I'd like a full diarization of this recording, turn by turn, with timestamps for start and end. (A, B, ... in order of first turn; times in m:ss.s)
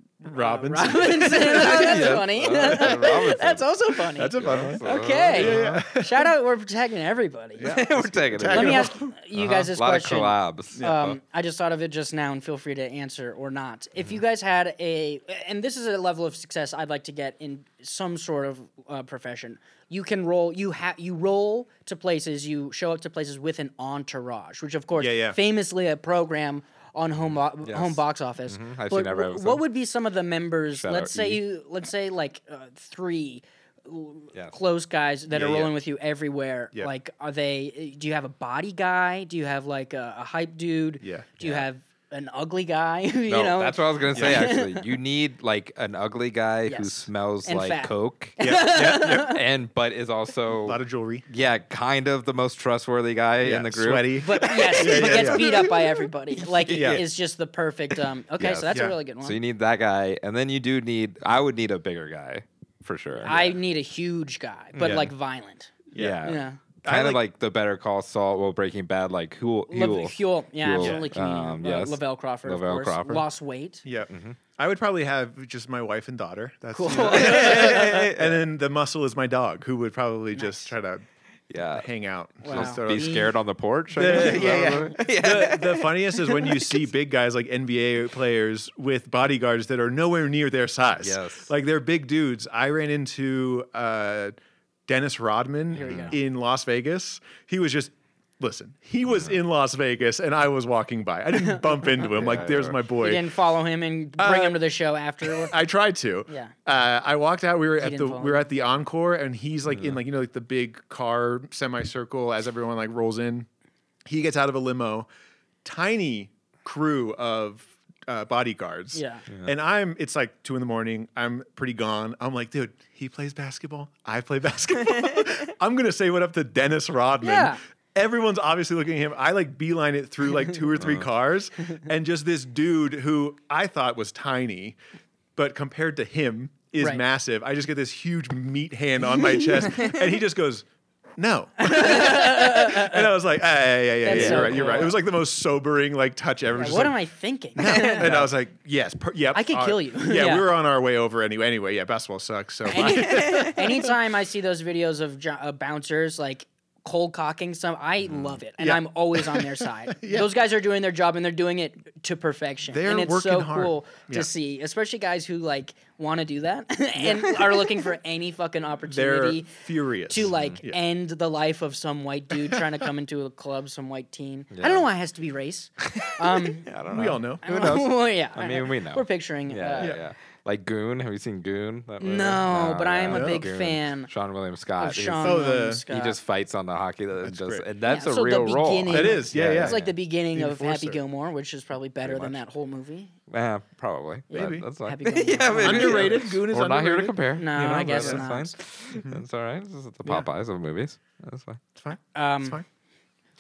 0:00.2-0:03.2 A
0:00.2-0:07.8 B
0:01.4-0:03.7 C
0:04.1-0:04.8 A
0:04.4-0:05.8 C
0:05.3-0:06.3 A
0:07.6-0:09.1 A
0:07.6-0:11.2 C
0:08.5-0:44.9 B
0:10.8-0:11.1 A
0:25.0-0:25.4 A
0:27.6-0:29.6 C
0:30.7-0:31.4 C
0:35.3-0:35.7 A
0:41.0-0:41.3 A
0:41.4-0:41.7 C
0:43.3-0:55.8 C
0:44.1-0:44.4 A
0:46.7-0:49.4 B
0:48.4-0:49.3 A
0:50.6-0:51.2 A
0:53.4-0:55.7 A
0:54.2-0:59.4 B
0:56.6-0:57.0 C
0:56.7-0:57.0 A
0:58.4-1:03.5 C
0:58.7-0:59.0 A
1:03.2-1:06.6 B
1:04.8-1:05.1 C
1:05.9-1:06.3 A
1:06.0-1:13.2 C
1:06.8-1:07.2 A
1:09.7-1:13.8 B
1:10.8-1:11.1 A
1:13.8-1:21.0 A
1:14.1-1:14.4 C
1:16.7-1:18.0 B
1:16.9-1:18.4 C
1:20.3-1:20.7 B
1:21.5-1:21.9 C
1:21.6-1:23.3 A
1:22.4-1:23.3 B
1:22.5-1:26.7 C
1:24.0-1:34.4 A
1:24.0-1:24.8 B
1:31.0-1:31.5 C
1:34.9-1:43.3 A
1:35.8-1:36.2 B
1:35.8-1:36.1 C
1:41.4-1:42.0 B
1:42.2-1:42.8 C
1:43.0-1:45.6 B
1:44.2-1:44.6 A
1:45.2-1:53.5 A
1:46.3-1:46.5 B
1:47.8-1:48.5 B
1:49.7-1:50.0 C
1:54.0-1:55.1 A
1:55.6-2:14.8 A
1:58.9-1:59.2 B
2:07.2-2:07.6 B
2:10.8-2:11.1 C
2:15.4-2:20.7 A
2:21.2-2:27.0 A
2:21.6-2:23.1 B
2:24.0-2:25.0 B
2:24.1-2:24.9 C
2:26.6-2:28.1 B
2:27.6-2:33.9 A
2:27.7-2:28.3 C
2:29.3-2:30.5 B
2:32.7-2:56.7 B
2:33.1-2:33.5 C
2:38.6-2:40.3 A
2:42.7-2:44.3 A
2:47.0-2:47.4 A
2:48.9-2:50.8 A
2:50.2-2:50.6 C
2:54.5-2:54.9 C
2:55.8-3:09.9 C
2:56.9-2:57.4 A
2:57.4-3:00.0 B
3:02.0-3:04.1 B
3:03.1-3:03.5 A
3:04.8-3:06.2 B
3:05.2-3:05.8 A
3:07.2-3:07.7 A
3:07.8-3:13.1 B
3:08.9-3:09.8 A
3:10.3-3:11.0 A
3:12.1-3:12.3 A
3:13.3-3:21.6 C
3:14.3-3:14.6 A
3:14.3-3:16.2 B
3:15.6-3:18.3 A
3:17.4-3:18.5 B
3:18.9-3:19.2 A
3:21.8-3:22.6 A
3:22.1-3:22.6 B